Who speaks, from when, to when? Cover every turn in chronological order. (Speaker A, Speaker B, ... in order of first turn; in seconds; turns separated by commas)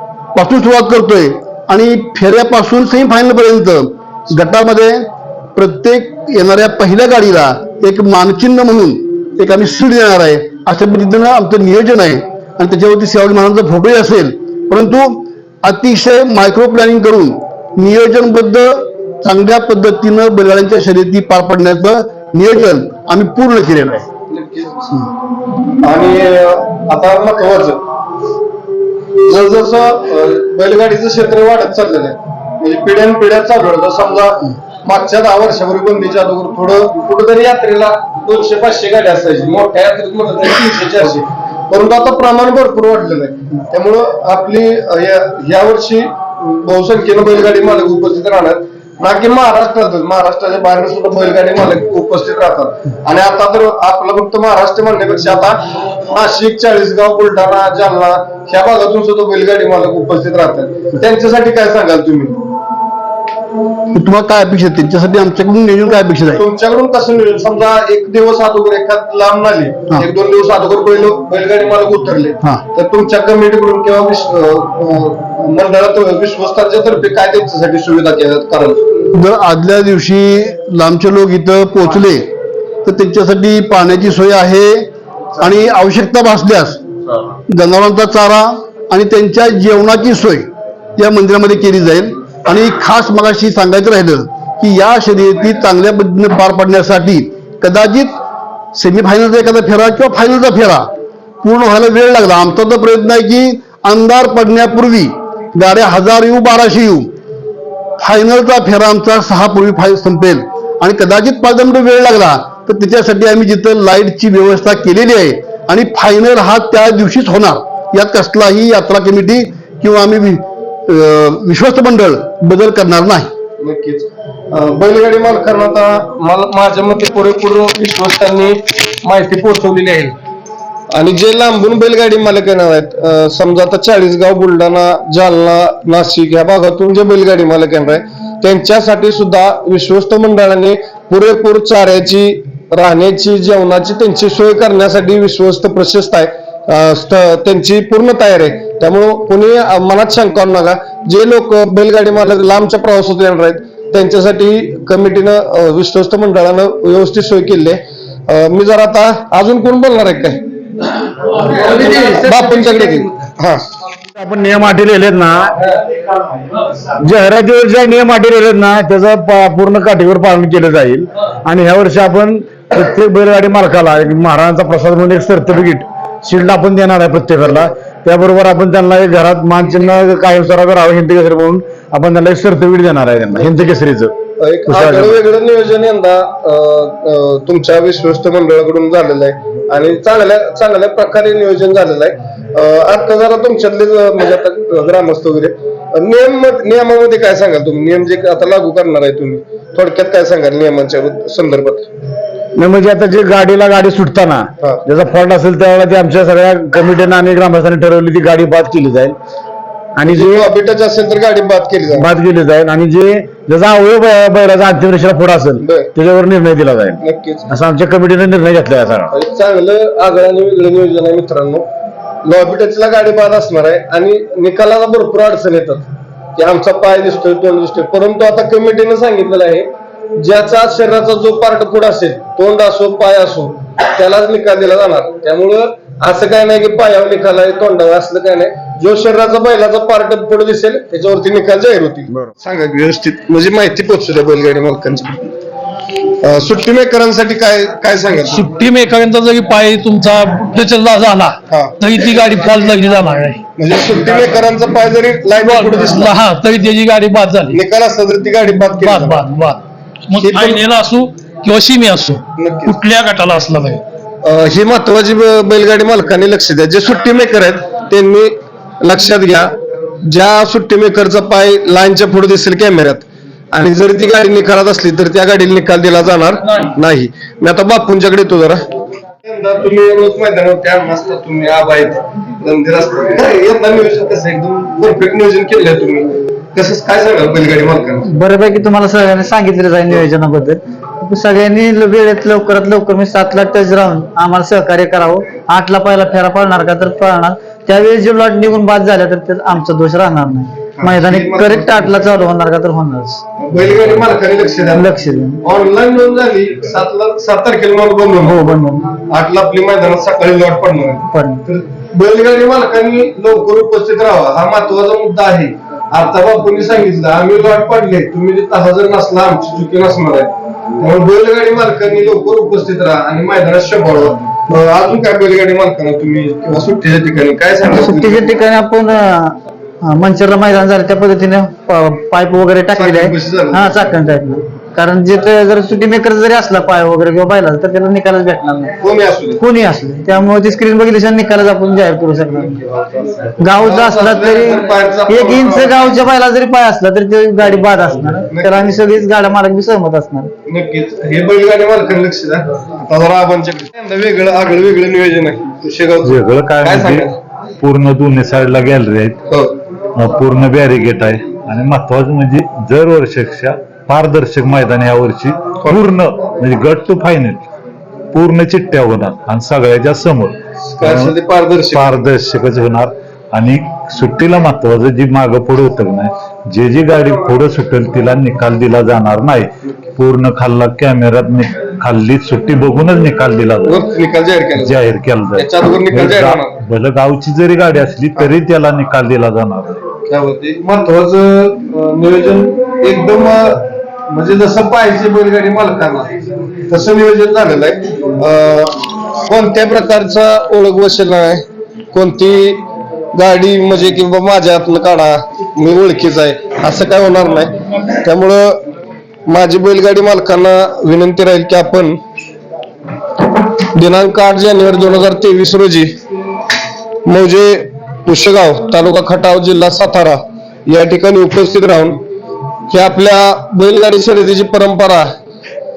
Speaker A: 0.3-24.1, Speaker B: 24.3-25.0, Speaker B: 25.8-27.8, Speaker B: 29.2-62.4, Speaker A: 63.9-66.4, Speaker B: 66.3-78.8, Speaker A: 79.1-82.3, Speaker A: 82.8-84.9, Speaker A: 85.4-86.8, Speaker A: 87.5-98.2, Speaker A: 98.7-100.9, Speaker A: 101.4-107.1, Speaker A: 108.0-123.3, Speaker B: 123.6-130.1, Speaker B: 130.9-160.4, Speaker B: 161.3-163.6, Speaker C: 164.2-165.5, Speaker C: 166.8-184.1, Speaker B: 184.4-201.9, Speaker C: 184.7-185.2, Speaker C: 202.6-209.2, Speaker C: 210.0-210.5, Speaker B: 210.1-212.1, Speaker C: 211.9-219.1, Speaker B: 215.6-215.9, Speaker B: 217.0-217.5, Speaker B: 219.1-221.7, Speaker B: 222.2-245.3, Speaker B: 246.2-248.5, Speaker D: 248.3-253.4, Speaker B: 253.6-256.1, Speaker D: 255.4-257.6, Speaker B: 257.5-259.2, Speaker D: 258.8-263.8, Speaker B: 260.2-260.6, Speaker B: 262.4-262.8, Speaker B: 264.2-278.6, Speaker B: 279.2-288.0, Speaker E: 288.1-303.2, Speaker B: 300.8-302.0, Speaker B: 303.4-304.9, Speaker E: 304.7-305.4, Speaker B: 305.4-308.4, Speaker E: 308.2-308.9, Speaker B: 309.0-328.3, Speaker E: 311.1-311.4, Speaker E: 327.7-338.8, Speaker B: 332.7-333.9, Speaker B: 338.8-339.4, Speaker E: 339.4-342.7, Speaker B: 342.8-345.9, Speaker E: 343.4-350.3, Speaker B: 348.3-348.7, Speaker B: 350.5-357.1, Speaker F: 356.0-357.1, Speaker F: 357.6-359.2, Speaker F: 359.9-367.4, Speaker F: 368.1-371.1, Speaker B: 370.8-372.0, Speaker F: 371.7-383.8, Speaker B: 383.6-384.8, Speaker F: 384.6-389.8, Speaker B: 385.3-386.6, Speaker B: 390.1-408.6, Speaker B: 409.3-412.0, Speaker B: 413.7-415.9, Speaker B: 417.1-422.0, Speaker B: 422.7-425.1